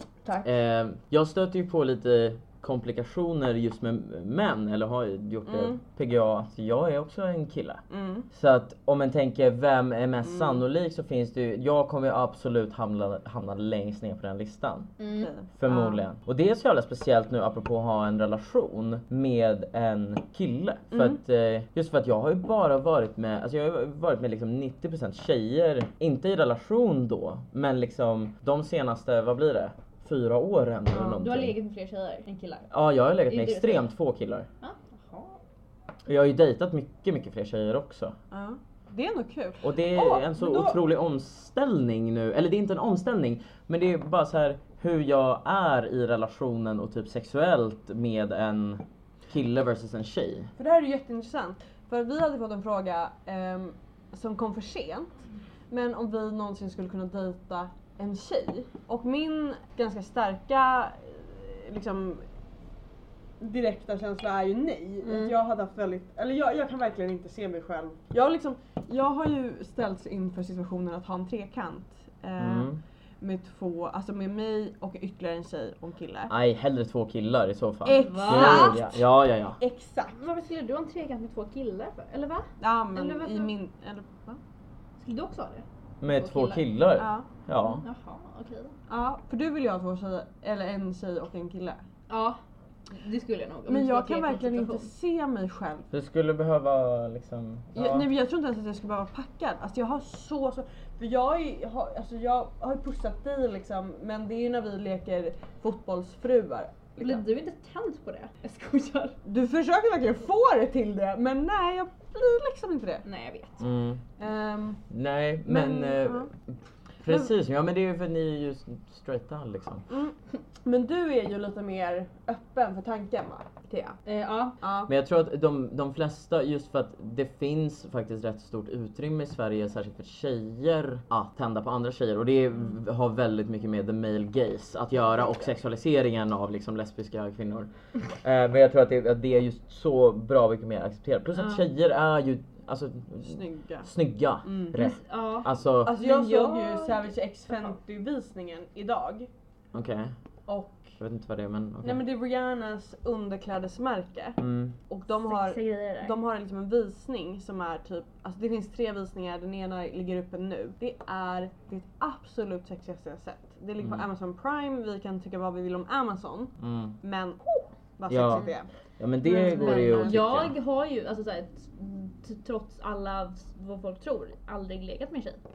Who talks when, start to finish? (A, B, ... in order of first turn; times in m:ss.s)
0:00.2-0:00.5 A
0:00.4-0:14.9 B
0:05.4-0:05.8 A
0:07.9-0:08.3 A
0:10.2-0:10.6 A
0:15.0-0:15.3 C
0:15.2-0:16.0 A
0:15.6-0:31.5 B
0:20.9-0:21.2 A
0:31.2-0:32.7 C
0:32.7-0:34.5 B
0:33.3-0:33.8 C
0:34.6-0:35.4 C
0:36.0-0:38.2 B
0:38.3-0:40.8 A
0:39.6-0:50.5 B
0:50.6-0:55.1 A
0:55.7-1:02.2 A
1:03.4-1:16.3 A
1:05.0-1:05.3 C
1:12.4-1:12.8 B
1:16.3-1:19.6 B
1:17.8-1:18.9 A
1:17.9-1:18.8 C
1:19.6-1:20.2 A
1:20.1-1:23.5 C
1:22.6-1:24.4 A
1:25.0-1:26.6 C
1:26.0-1:27.8 B
1:27.0-1:27.2 A
1:27.6-1:28.8 C
1:28.9-1:31.8 A
1:32.1-1:32.4 C
1:32.9-1:34.9 C
1:33.7-1:35.9 A
1:35.9-1:38.1 B
1:37.7-1:47.2 A
1:47.0-1:49.2 C
1:49.2-1:53.0 A
1:53.0-1:53.6 C
1:53.6-1:54.0 B
1:54.2-1:54.8 A
1:54.9-1:59.9 B
1:55.4-1:56.3 A
1:57.0-1:57.3 A
1:59.9-2:04.0 A
2:04.0-2:04.6 C
2:04.6-2:04.9 A
2:04.9-2:25.9 B
2:23.2-2:23.9 A
2:24.4-2:24.8 A
2:24.7-2:27.1 C
2:25.8-2:29.3 A
2:29.7-2:30.1 B
2:30.5-2:30.9 A
2:31.0-2:32.0 B
2:31.8-2:48.7 A
2:34.4-2:34.7 B
2:35.2-2:36.1 C
2:46.6-2:47.0 B
2:48.1-2:48.4 B
2:49.0-2:50.5 B
2:49.2-2:50.2 A
2:49.2-2:55.4 C